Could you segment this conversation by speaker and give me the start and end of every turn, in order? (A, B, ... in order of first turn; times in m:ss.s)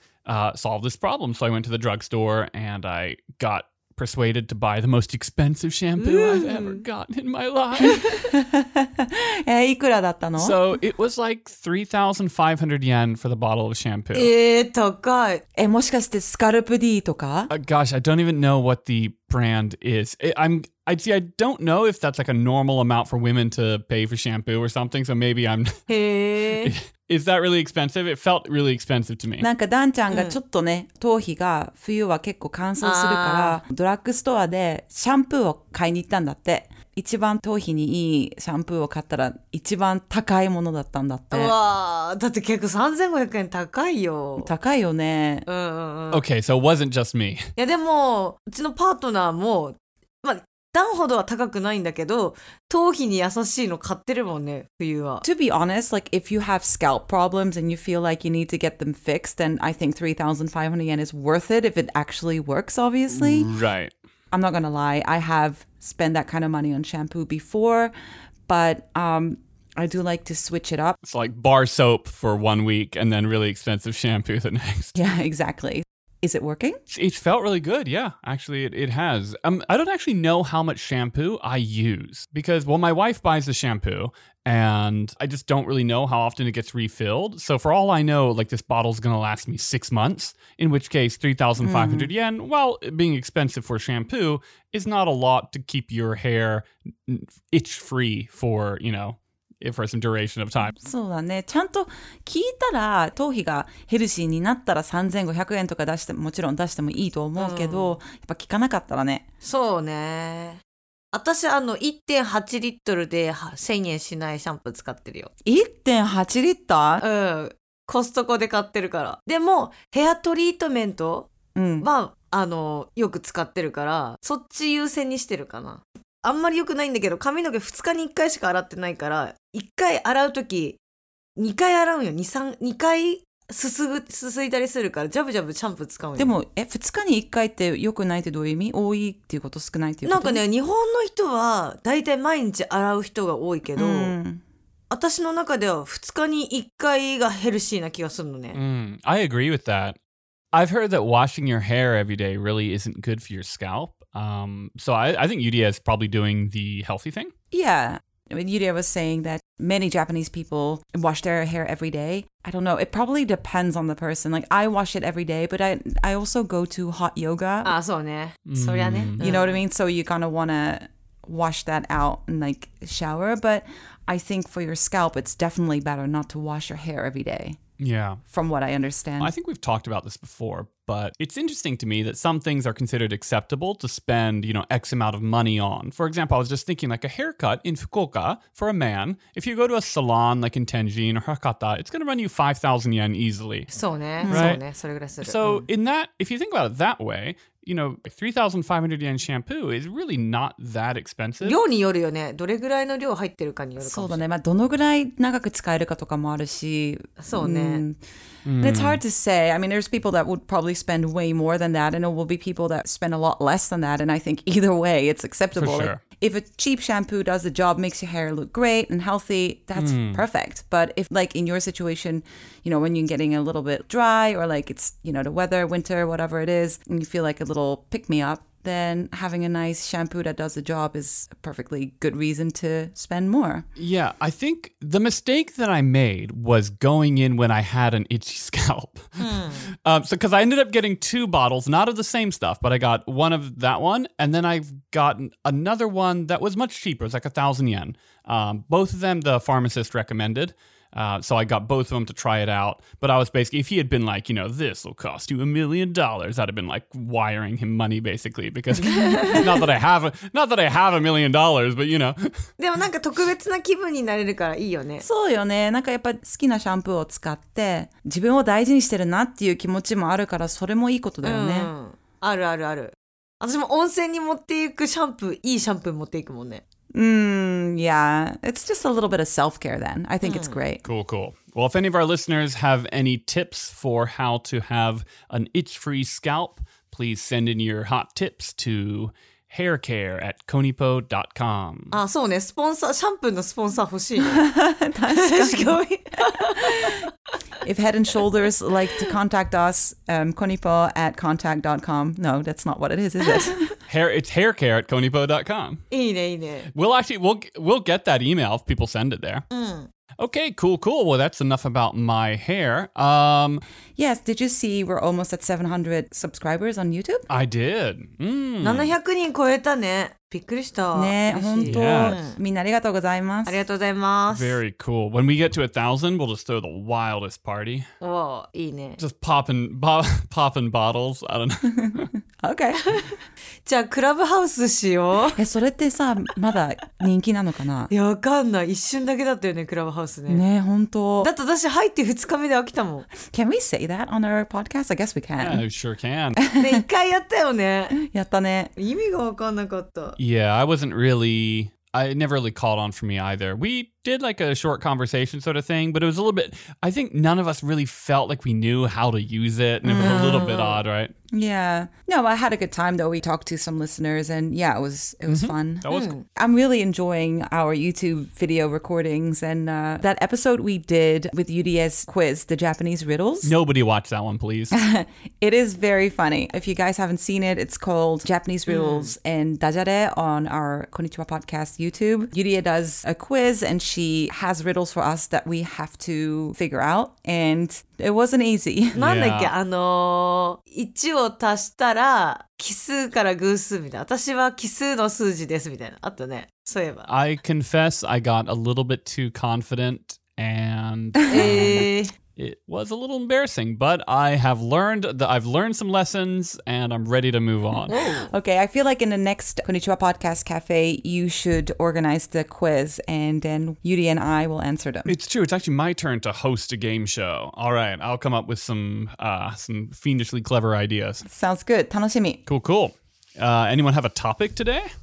0:00.3-0:08.1 A
0:06.0-0:06.8 B
0:07.8-0:10.6 C
0:10.4-0:14.3 A
0:14.1-0:15.4 B
0:15.6-0:17.5 C
0:17.5-0:25.8 A
0:25.9-0:26.7 B
0:26.6-0:29.5 A
0:29.4-0:41.5 C
0:30.1-0:30.4 B
0:32.8-0:33.6 B
0:41.3-0:44.5 B
0:44.4-0:45.5 C
0:45.5-0:46.2 B
0:46.1-0:47.5 A
0:47.6-0:55.2 B
0:55.2-1:03.6 C
1:03.1-1:03.9 A
1:04.3-1:07.9 C
1:08.5-1:11.0 C
1:11.0-1:15.0 A
1:15.0-1:16.8 C
1:16.9-1:40.8 A
1:31.6-1:32.1 C
1:40.8-1:49.2 C
1:47.4-1:48.0 B
1:49.4-1:50.6 B
1:51.1-1:55.3 B
1:55.4-1:57.0 C
1:57.0-2:01.3 B
2:01.6-2:01.9 C
2:01.8-2:10.8 B
2:11.4-2:16.3 B
2:16.2-2:20.4 C
2:20.0-2:24.2 B
2:23.8-2:24.4 C
2:24.9-2:28.6 B
2:28.5-2:30.0 A
2:30.5-2:37.3 A
2:37.5-2:47.7 C
2:47.6-2:49.6 B
2:48.5-2:49.2 A
2:49.2-2:57.6 C
2:57.8-2:58.2 A
2:58.3-2:59.3 C
2:59.2-3:13.7 A
3:13.7-3:15.6 B
3:14.2-3:14.6 C
3:14.3-3:14.6 A
3:15.2-3:21.6 A
3:21.4-3:24.2 B
3:23.8-3:28.0 C
3:27.2-3:27.8 B
3:28.4-3:29.0 A
3:28.6-3:53.6 C
3:35.6-3:36.0 A
3:39.8-3:40.2 A
3:53.8-4:22.3 A
3:59.2-3:59.7 B
4:18.9-4:19.5 B
4:19.0-4:19.4 C
4:22.6-4:25.0 B
4:25.0-4:31.7 C
4:31.2-4:36.6 B
4:36.9-4:40.8 C
4:40.2-4:40.6 B
4:40.8-4:52.0 A
4:51.9-4:54.5 B
4:54.2-4:55.8 C
4:55.1-4:57.1 B
4:56.4-4:57.1 C
4:57.6-5:03.8 C
5:03.3-5:03.6 B
5:03.9-5:05.8 A
5:05.9-5:06.7 B
5:06.7-5:09.4 A
5:09.5-5:09.9 B
5:10.2-5:13.6 A
5:14.0-5:17.3 C
5:17.3-5:18.9 A
5:18.6-5:22.4 B
5:20.9-5:23.6 C
5:21.7-5:22.2 A
5:23.5-5:24.6 B
5:24.3-5:27.9 A
5:28.0-5:29.0 B
5:29.0-5:32.1 A
5:31.8-5:33.0 C
5:32.9-5:33.1 B
5:33.6-5:35.4 B
5:35.4-5:37.9 C
5:37.9-5:40.4 B
5:40.3-5:41.3 C
5:41.2-5:43.1 B
5:43.2-5:45.6 C
5:45.4-5:46.4 A
5:46.4-5:46.8 C
5:46.6-5:48.0 B
5:47.9-5:48.7 C
5:48.8-5:50.2 B
5:50.2-6:01.1 A
5:59.8-6:00.5 C
6:00.0-6:00.8 B
6:01.3-6:13.5 C
6:05.3-6:06.2 A
6:05.9-6:06.2 B
6:13.4-6:14.8 A
6:14.7-6:29.0 C
6:18.7-6:19.1 B
6:29.0-6:29.5 A
6:29.0-6:37.1 B
6:37.1-6:48.0 A
6:41.3-6:42.1 B
6:41.3-6:41.7 C
6:47.9-6:48.3 B
6:48.3-6:55.2 C
6:55.1-7:01.2 A
7:01.2-7:02.4 C
7:02.5-7:04.9 A